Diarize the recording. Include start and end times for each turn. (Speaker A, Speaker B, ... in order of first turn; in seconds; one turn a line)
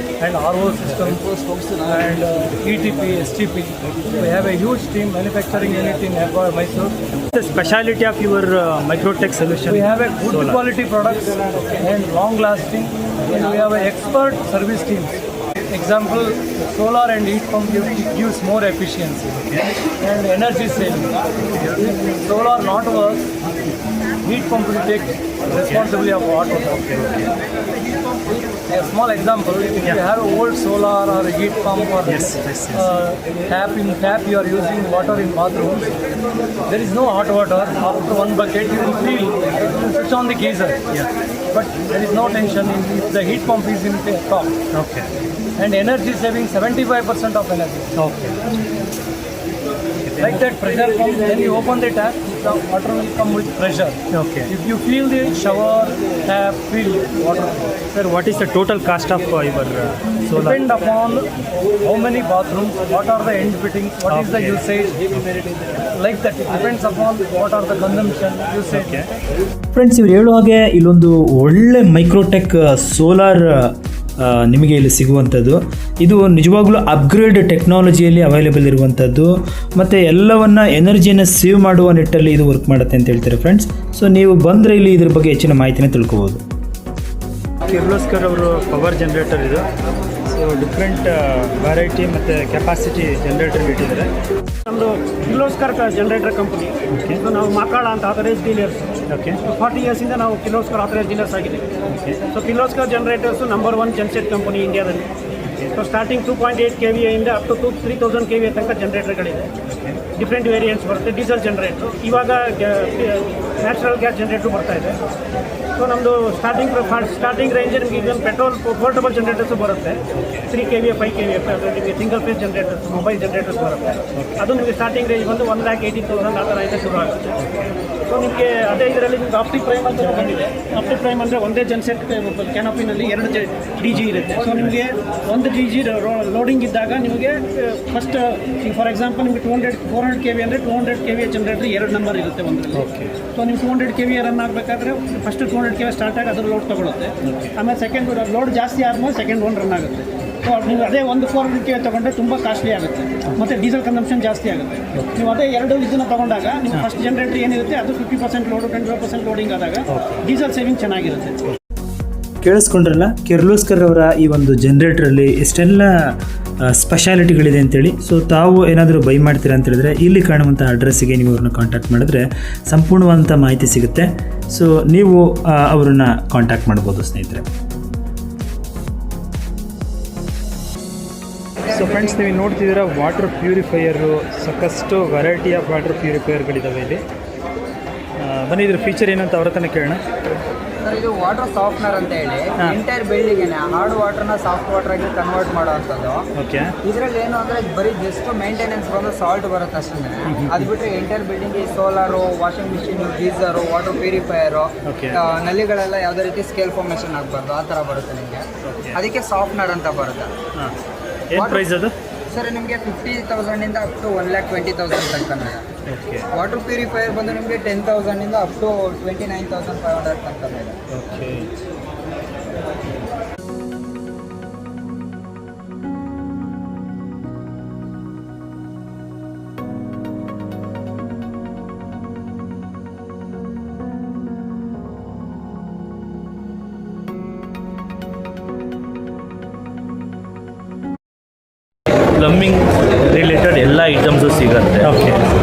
Speaker A: 0.2-6.9
Speaker B: 7.3-10.6
Speaker A: 9.7-19.3
Speaker A: 20.0-23.3
Speaker A: 24.2-27.0
Speaker B: 26.9-27.2
Speaker A: 28.7-35.9
Speaker B: 32.0-32.8
Speaker A: 36.7-40.9
Speaker A: 41.5-44.6
Speaker B: 44.7-45.1
Speaker A: 45.5-47.9
Speaker B: 48.0-48.5
Speaker B: 50.0-50.3
Speaker A: 50.2-57.8
Speaker B: 54.1-54.5
Speaker B: 57.9-60.6
Speaker A: 60.3-61.3
Speaker A: 61.8-65.0
Speaker B: 64.1-64.4
Speaker A: 65.8-69.0
Speaker B: 68.7-69.1
Speaker B: 69.7-86.4
Speaker B: 87.6-89.7
Speaker B: 90.3-94.1
Speaker C: 94.7-98.9
Speaker B: 96.9-97.2
Speaker B: 99.1-99.4
Speaker C: 99.4-101.7
Speaker B: 101.9-102.2
Speaker C: 102.3-105.1
Speaker C: 105.7-109.5
Speaker B: 109.7-110.0
Speaker C: 110.1-115.0
Speaker C: 115.8-127.3
Speaker B: 120.2-120.4
Speaker B: 124.2-124.4
Speaker C: 128.1-161.4
Speaker B: 142.7-143.1
Speaker B: 147.2-147.5
Speaker B: 159.9-160.2
Speaker B: 162.4-165.9
Speaker B: 166.7-177.4
Speaker B: 181.7-187.0
Speaker B: 188.2-190.0
Speaker D: 190.8-196.2
Speaker B: 196.3-196.7
Speaker D: 196.8-210.3
Speaker B: 200.3-200.7
Speaker B: 204.9-205.2
Speaker B: 208.7-209.0
Speaker B: 211.3-211.9
Speaker D: 211.3-211.7
Speaker D: 212.3-215.6
Speaker B: 215.9-216.2
Speaker D: 216.3-220.8
Speaker B: 220.9-221.5
Speaker E: 242.2-245.0
Speaker B: 244.8-245.2